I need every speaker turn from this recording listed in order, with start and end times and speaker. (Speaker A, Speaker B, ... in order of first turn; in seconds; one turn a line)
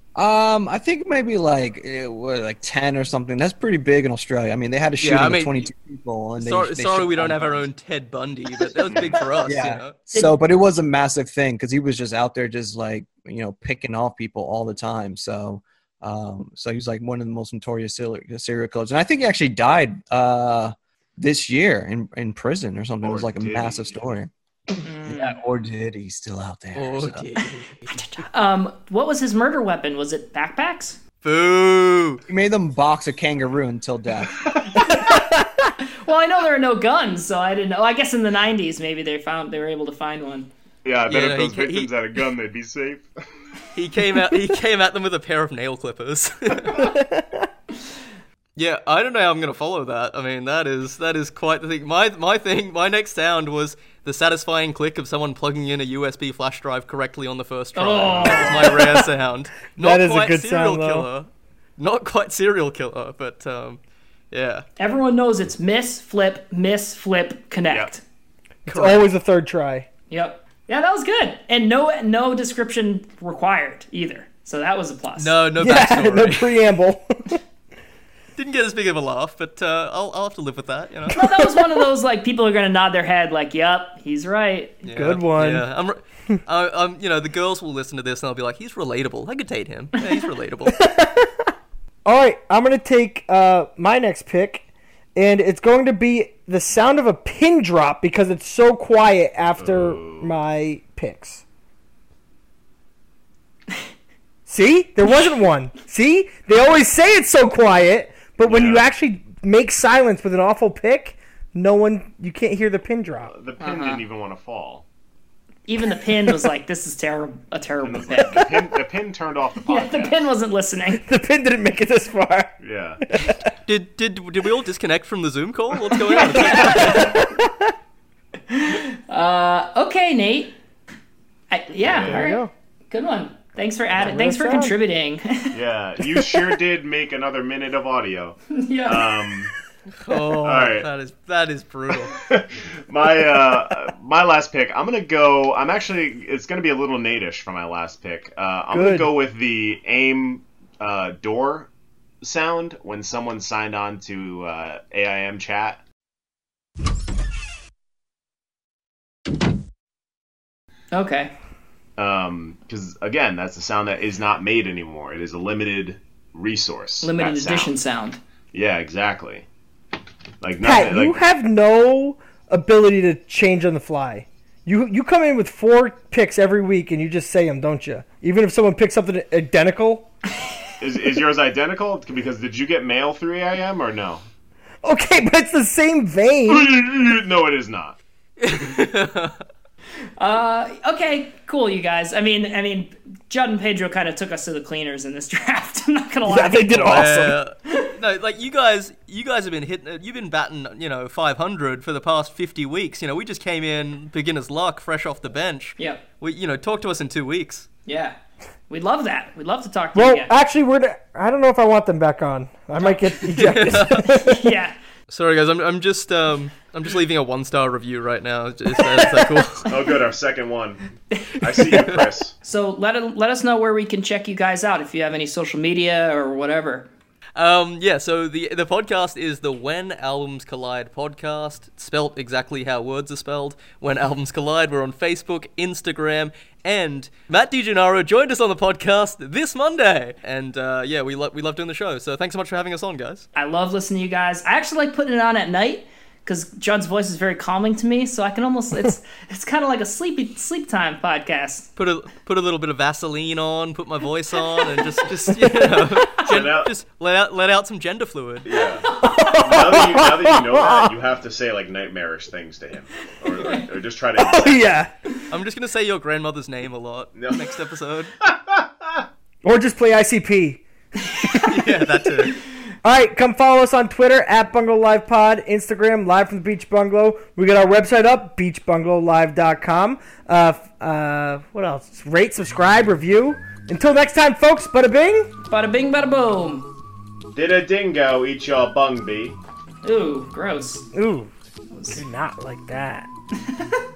Speaker A: 0.1-7.7
Speaker B: 5.0-5.7
Speaker B: 6.4-9.9
Speaker A: 8.8-27.3
Speaker C: 23.0-23.8
Speaker D: 24.8-25.4
Speaker B: 26.8-28.2
Speaker D: 27.4-31.0
Speaker B: 31.2-32.2
Speaker A: 32.3-34.5
Speaker D: 35.9-40.5
Speaker C: 40.9-43.1
Speaker B: 41.1-41.9
Speaker B: 43.7-46.9
Speaker E: 46.7-47.5
Speaker B: 48.6-63.8
Speaker D: 57.8-58.7
Speaker C: 58.1-58.6
Speaker E: 58.7-59.1
Speaker E: 59.7-61.1
Speaker B: 64.3-64.7
Speaker D: 64.8-68.0
Speaker E: 68.7-69.9
Speaker B: 68.7-69.1
Speaker D: 70.1-75.4
Speaker B: 75.2-76.5
Speaker E: 75.6-77.4
Speaker B: 78.4-81.2
Speaker D: 81.1-84.8
Speaker E: 81.1-81.4
Speaker B: 84.8-90.8
Speaker E: 85.0-85.7
Speaker E: 90.7-91.5
Speaker E: 92.1-101.4
Speaker C: 99.6-100.4
Speaker E: 104.5-113.3
Speaker C: 108.5-108.9
Speaker C: 113.3-114.8
Speaker D: 113.6-114.0
Speaker D: 115.7-118.5
Speaker C: 117.8-120.3
Speaker D: 119.7-121.0
Speaker E: 120.9-123.5
Speaker C: 122.6-123.0
Speaker B: 123.7-127.1
Speaker D: 126.2-126.7
Speaker E: 126.4-127.7
Speaker C: 126.4-127.1
Speaker D: 128.5-130.6
Speaker D: 131.5-135.6
Speaker C: 131.9-132.3
Speaker E: 132.0-132.5
Speaker E: 134.0-134.8
Speaker C: 135.5-139.5
Speaker D: 138.5-139.1
Speaker B: 140.0-142.2
Speaker C: 140.4-140.9
Speaker C: 142.1-151.7
Speaker E: 148.7-149.1
Speaker C: 152.2-155.8
Speaker D: 160.9-161.3
Speaker C: 162.0-167.8
Speaker D: 167.0-168.2
Speaker C: 168.5-169.5
Speaker C: 170.4-171.2
Speaker E: 170.6-180.1
Speaker C: 180.8-184.2
Speaker E: 184.8-186.7
Speaker C: 186.5-188.0
Speaker B: 188.4-189.4
Speaker D: 190.2-197.1
Speaker E: 196.2-197.4
Speaker B: 196.9-207.7
Speaker D: 207.9-208.2
Speaker D: 208.7-210.3
Speaker E: 209.9-214.4
Speaker D: 212.8-213.2
Speaker B: 213.3-214.2
Speaker D: 214.2-214.8
Speaker B: 215.1-219.7
Speaker C: 219.7-220.8
Speaker C: 221.4-222.3
Speaker B: 221.7-222.0
Speaker E: 221.7-222.0
Speaker D: 222.4-226.9
Speaker B: 227.4-243.2
Speaker D: 243.3-251.7
Speaker B: 251.8-258.5
Speaker E: 255.4-255.8
Speaker C: 256.3-256.7
Speaker C: 258.4-258.9
Speaker D: 258.5-259.6
Speaker E: 258.9-260.9
Speaker C: 259.4-264.8
Speaker D: 263.4-263.7
Speaker E: 264.1-264.9
Speaker B: 265.3-268.1
Speaker C: 267.2-267.4
Speaker C: 268.2-269.1
Speaker E: 269.4-270.6
Speaker E: 271.3-271.6
Speaker B: 271.3-272.4
Speaker E: 272.8-285.3
Speaker D: 285.5-286.7
Speaker C: 287.3-289.4
Speaker D: 289.8-290.9
Speaker E: 290.9-291.3
Speaker D: 291.7-292.0
Speaker E: 291.9-293.1